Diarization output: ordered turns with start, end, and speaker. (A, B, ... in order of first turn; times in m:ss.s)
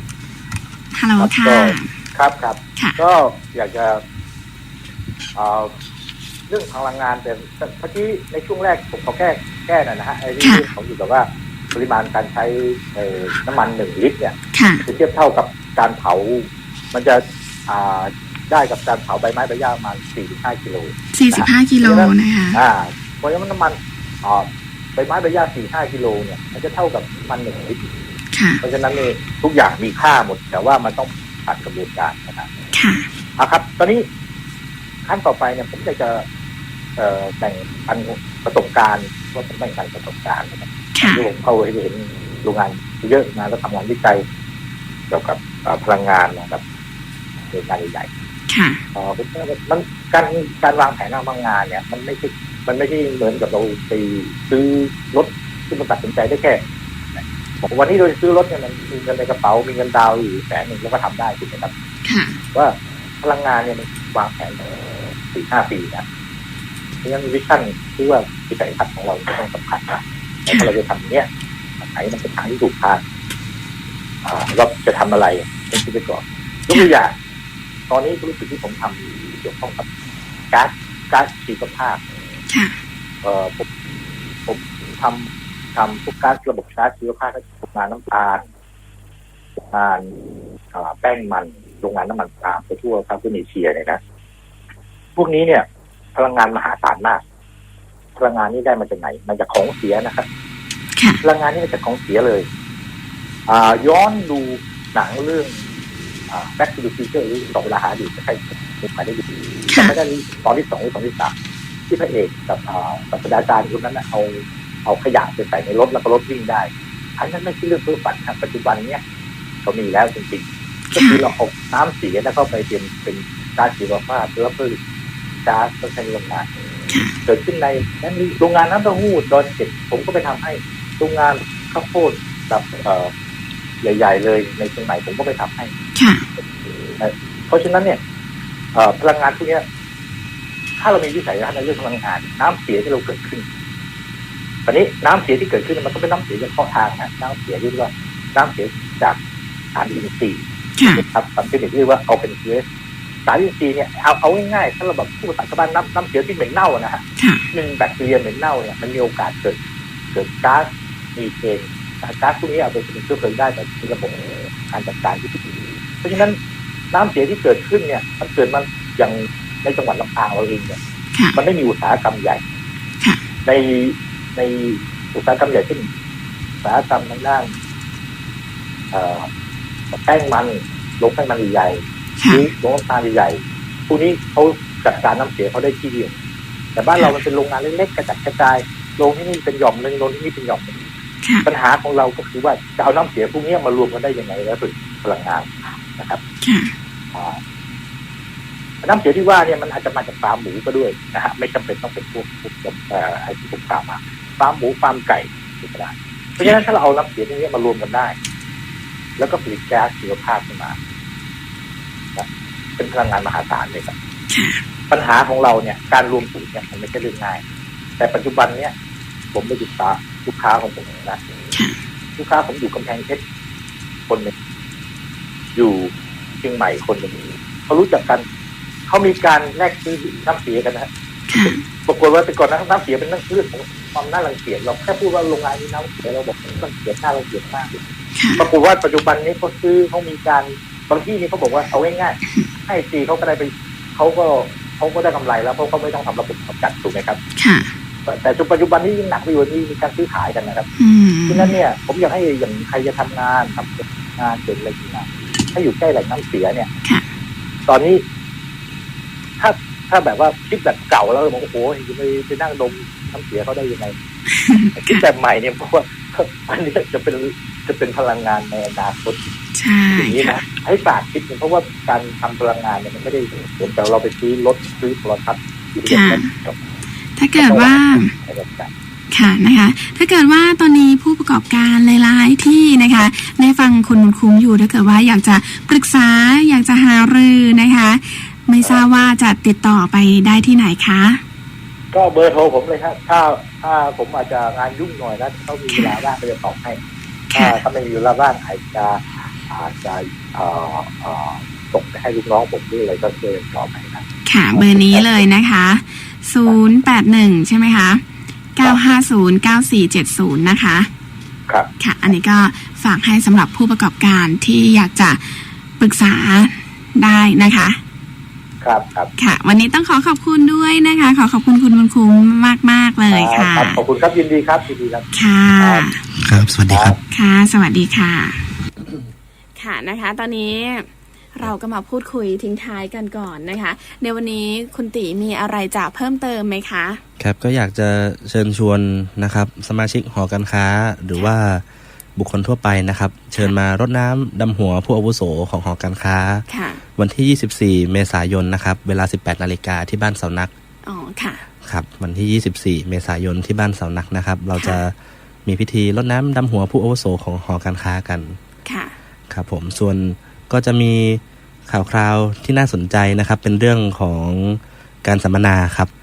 0:00.9-0:01.9 A
0:01.2-0:04.0 B
0:05.3-0:05.7 B
0:06.5-0:27.8 B
0:10.4-0:10.7 A
0:14.5-0:14.8 A
0:21.1-0:22.6 A
0:28.3-0:28.6 A
0:28.6-0:32.5 B
0:32.7-0:33.1 A
0:33.4-0:34.0 B
0:35.0-0:36.2 B
0:37.0-0:44.2 B
0:40.9-0:41.3 A
0:45.1-0:46.6 B
0:47.5-0:48.1 B
0:48.5-0:48.8 A
0:48.9-0:56.6 B
0:57.1-1:01.7 B
1:02.0-1:02.4 A
1:02.5-1:04.7 B
1:05.2-1:06.0 B
1:07.0-1:11.3 B
1:11.8-1:13.0 B
1:14.2-1:17.1 B
1:17.9-1:19.8 B
1:20.5-1:22.0 B
1:22.5-1:22.8 A
1:23.2-1:23.6 B
1:24.4-1:28.4 B
1:29.7-1:30.1 B
1:30.7-1:34.0 B
1:35.2-1:37.2 B
1:38.2-1:40.2 B
1:41.0-1:41.2 A
1:41.2-1:42.4 B
1:43.5-1:45.6 B
1:46.3-1:51.3 B
1:49.7-1:49.9 A
1:51.9-1:59.0 B
1:59.6-2:04.8 B
2:00.9-2:01.2 A
2:05.4-2:06.5 B
2:06.9-2:07.1 A
2:07.2-2:13.1 B
2:13.8-2:15.7 B
2:16.0-2:16.2 A
2:17.0-2:18.0 B
2:18.7-2:19.6 B
2:20.8-2:23.4 B
2:24.6-2:29.2 B
2:29.7-2:32.6 B
2:30.8-2:31.0 A
2:33.2-2:39.6 B
2:37.2-2:37.4 A
2:40.1-2:45.4 B
2:46.0-2:46.4 B
2:46.9-2:50.8 B
2:51.1-2:51.4 A
2:51.3-2:52.4 B
2:53.4-2:55.9 B
2:56.6-2:57.5 B
2:58.9-2:59.3 B
2:59.9-3:06.1 B
3:02.2-3:02.5 A
3:06.8-3:10.8 B
3:11.4-3:16.2 B
3:16.4-3:16.7 A
3:18.8-3:28.2 B
3:29.2-3:30.8 B
3:32.8-3:33.9 B
3:34.3-3:34.6 A
3:34.9-3:37.4 B
3:38.0-3:38.7 B
3:39.3-3:41.2 B
3:41.5-3:41.8 A
3:42.2-3:43.2 B
3:45.5-3:45.9 B
3:46.4-3:48.2 B
3:48.9-3:57.8 B
3:51.3-3:51.6 A
3:58.1-3:58.5 A
3:58.4-4:07.2 B
4:07.4-4:07.7 A
4:08.1-4:10.6 B
4:10.8-4:11.5 A
4:11.3-4:16.7 B
4:17.7-4:18.0 B
4:19.4-4:23.9 B
4:24.3-4:25.0 A
4:24.8-4:29.2 B
4:29.5-4:30.4 A
4:29.9-4:36.6 B
4:35.8-4:36.3 A
4:37.1-4:38.1 A
4:37.4-4:38.7 B
4:39.1-4:51.2 A
4:51.9-4:56.8 B
4:55.7-4:56.0 A
4:57.3-4:57.6 A
4:57.3-5:05.2 B
5:04.2-5:08.0 A
5:08.6-5:10.9 A
5:11.8-5:17.8 A
5:18.6-5:19.1 B
5:19.2-5:23.8 A
5:23.1-5:25.1 B
5:25.1-5:26.0 A
5:25.6-5:25.9 B
5:26.2-5:27.0 C
5:26.7-5:27.0 B
5:27.1-5:28.5 A
5:29.6-5:37.0 A
5:37.2-5:41.6 C
5:42.2-5:50.5 C
5:46.5-5:46.8 A
5:50.8-5:51.4 A
5:51.6-5:54.9 C
5:54.5-5:54.8 A
5:55.4-5:58.4 C
5:58.6-5:59.0 A
5:59.3-6:05.9 C